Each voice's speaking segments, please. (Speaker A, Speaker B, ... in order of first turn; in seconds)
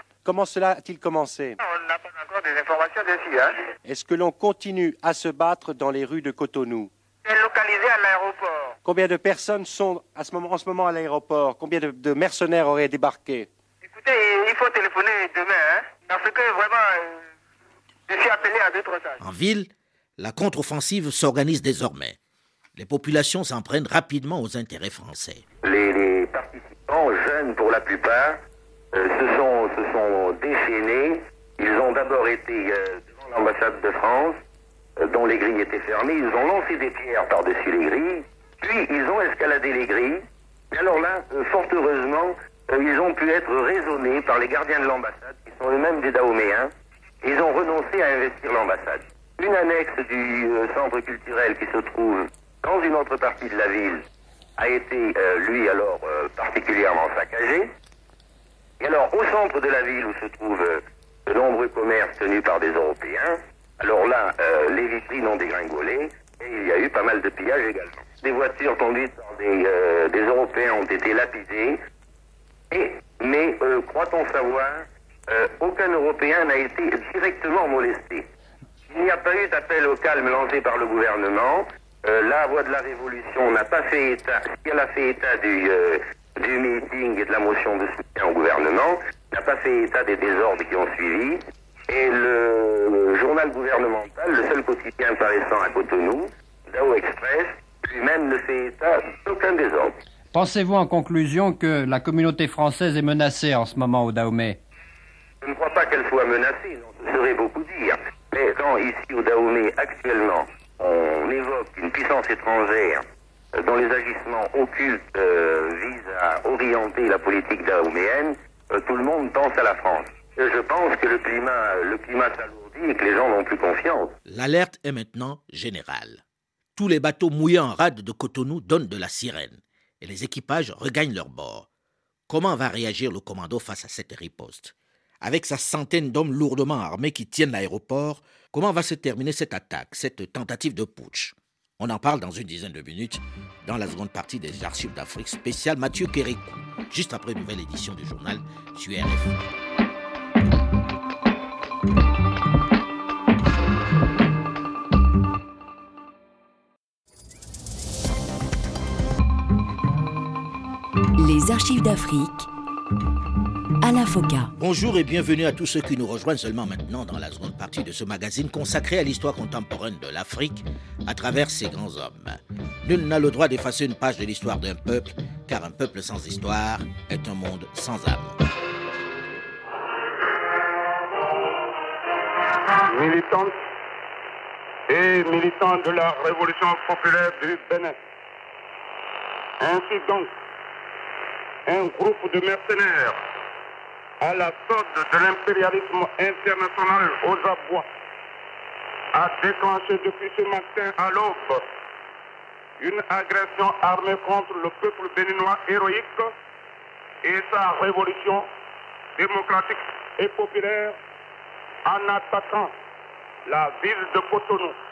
Speaker A: 0.2-1.6, 3.8-6.9, 8.8-13.5
Speaker B: 1.6-3.6, 7.2-8.7, 13.8-17.2, 18.1-19.2
Speaker C: 19.2-22.2, 22.8-25.4, 124.2-126.2, 126.8-131.7, 132.3-149.4, 164.6-178.3
Speaker D: 25.6-28.4, 28.9-34.4, 35.0-46.7, 47.2-54.1, 54.6-57.7, 58.8-71.8, 72.7-78.2, 78.9-99.9, 105.4-113.0, 113.5-124.1
Speaker E: 100.3-104.6
Speaker F: 161.2-162.5, 163.8-164.5
Speaker G: 182.9-183.5, 184.9-187.9, 189.6-190.3, 191.7-193.2, 194.2-197.9, 199.1-201.6, 202.8-206.3, 207.2-208.5, 209.2-211.0, 211.9-212.7, 213.5-214.8